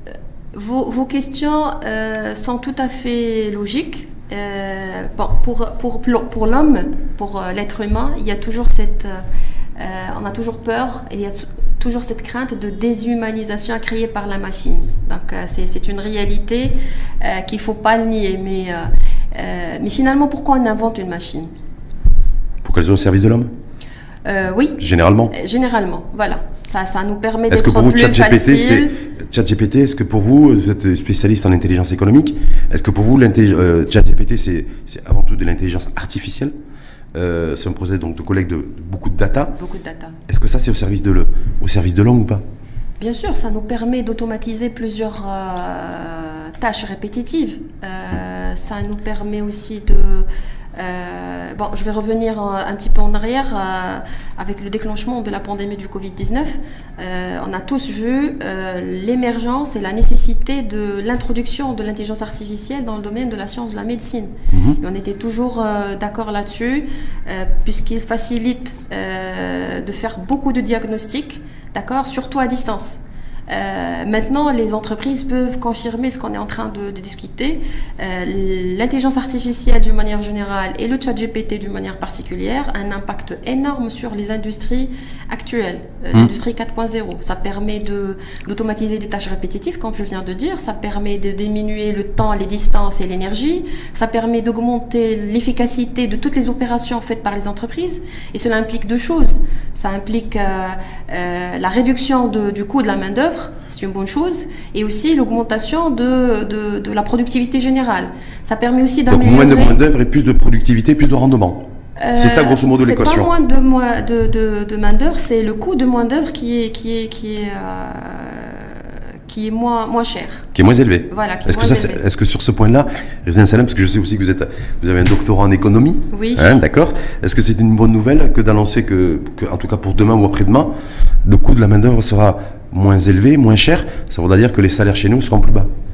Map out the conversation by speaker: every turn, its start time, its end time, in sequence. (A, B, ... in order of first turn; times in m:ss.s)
0:00.5-0:09.2 A
0:09.8-0:21.5 A
0:22.6-0:23.5 B
0:24.2-0:28.9 A
0:24.8-0:25.3 B
0:27.5-0:36.5 B
0:37.1-0:39.5 B
0:39.5-0:40.2 A
0:40.3-0:42.4 B
0:43.0-1:49.8 A
1:04.5-1:04.8 B
1:49.1-1:51.6 B
1:52.0-2:00.5 A
1:52.2-1:53.3 B
2:00.5-2:10.7 B
2:01.1-2:02.0 A
2:06.1-2:06.6 A
2:11.2-2:15.7 B